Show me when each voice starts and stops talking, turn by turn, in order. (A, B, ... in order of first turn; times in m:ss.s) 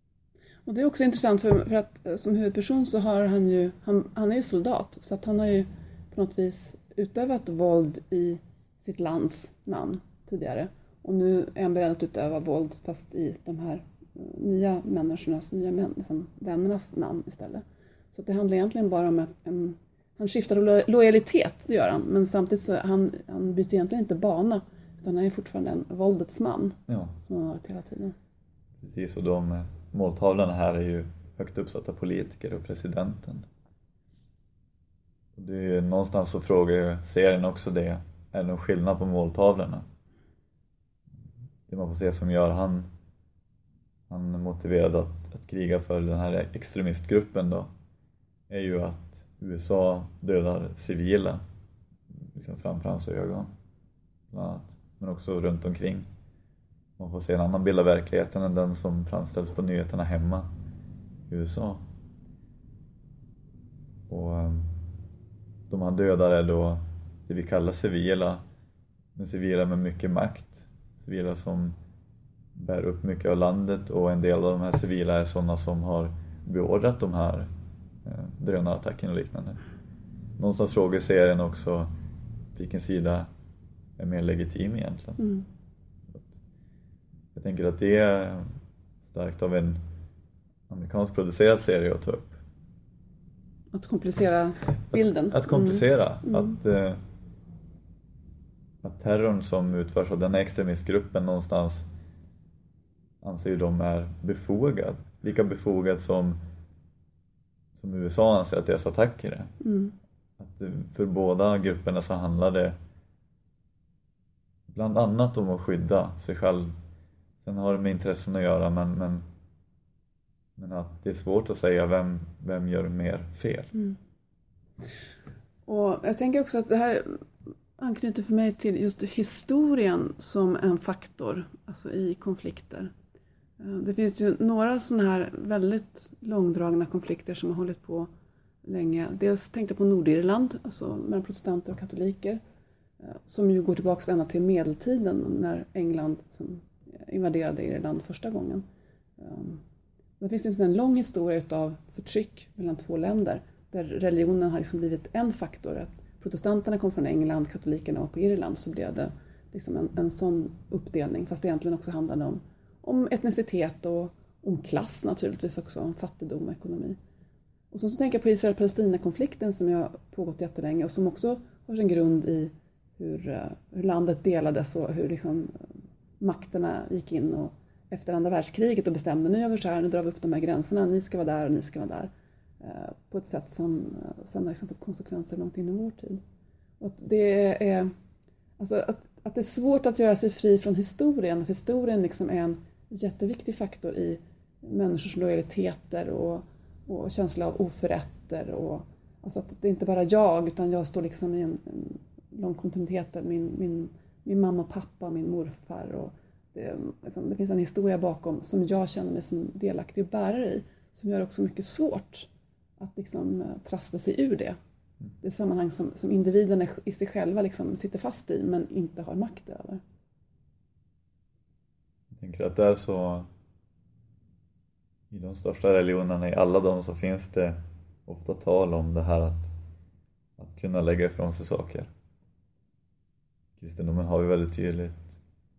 0:00.6-0:28.2 A
0:26.9-0:27.1 B
0:28.8-0:33.5 B
0:35.4-0:39.8 B
0:41.7-0:42.9 B
0:44.1-0:47.7 B
0:48.5-0:51.4 B
0:52.3-0:53.5 B
0:54.3-0:56.1 B
0:57.0-1:00.5 B
1:01.3-1:01.8 B
1:04.1-1:04.7 B
1:05.7-1:08.4 B
1:09.2-1:11.8 B
1:12.6-1:17.5 B
1:18.0-1:19.6 B
1:20.4-1:21.9 B
1:22.5-1:23.3 B
1:24.0-1:25.2 B
1:25.2-1:25.4 A
1:26.1-1:26.4 B
1:27.3-1:28.4 B
1:29.0-1:29.8 B
1:30.7-1:32.4 B
1:33.7-1:36.5 A
1:34.9-1:37.0 B
1:38.8-1:41.8 B
1:43.2-1:46.4 B
1:47.7-1:49.5 B
1:49.6-1:49.9 A
1:50.4-1:52.8 B
1:54.7-1:56.7 B
1:57.4-1:59.2 B
2:00.6-2:03.7 B
2:05.7-2:07.2 A
2:07.8-2:12.9 A
2:13.6-2:18.1 A
2:18.6-2:22.4 A
2:23.0-2:28.6 A
2:29.2-2:29.6 A
2:30.2-2:47.0 A
2:47.7-2:55.6 A
2:56.2-3:06.2 A
3:06.8-3:07.9 A
3:08.6-3:34.6 A
3:35.2-3:39.8 A
3:42.1-3:43.3 B
3:45.1-3:49.5 B
3:50.4-3:51.9 B
3:53.6-3:55.2 B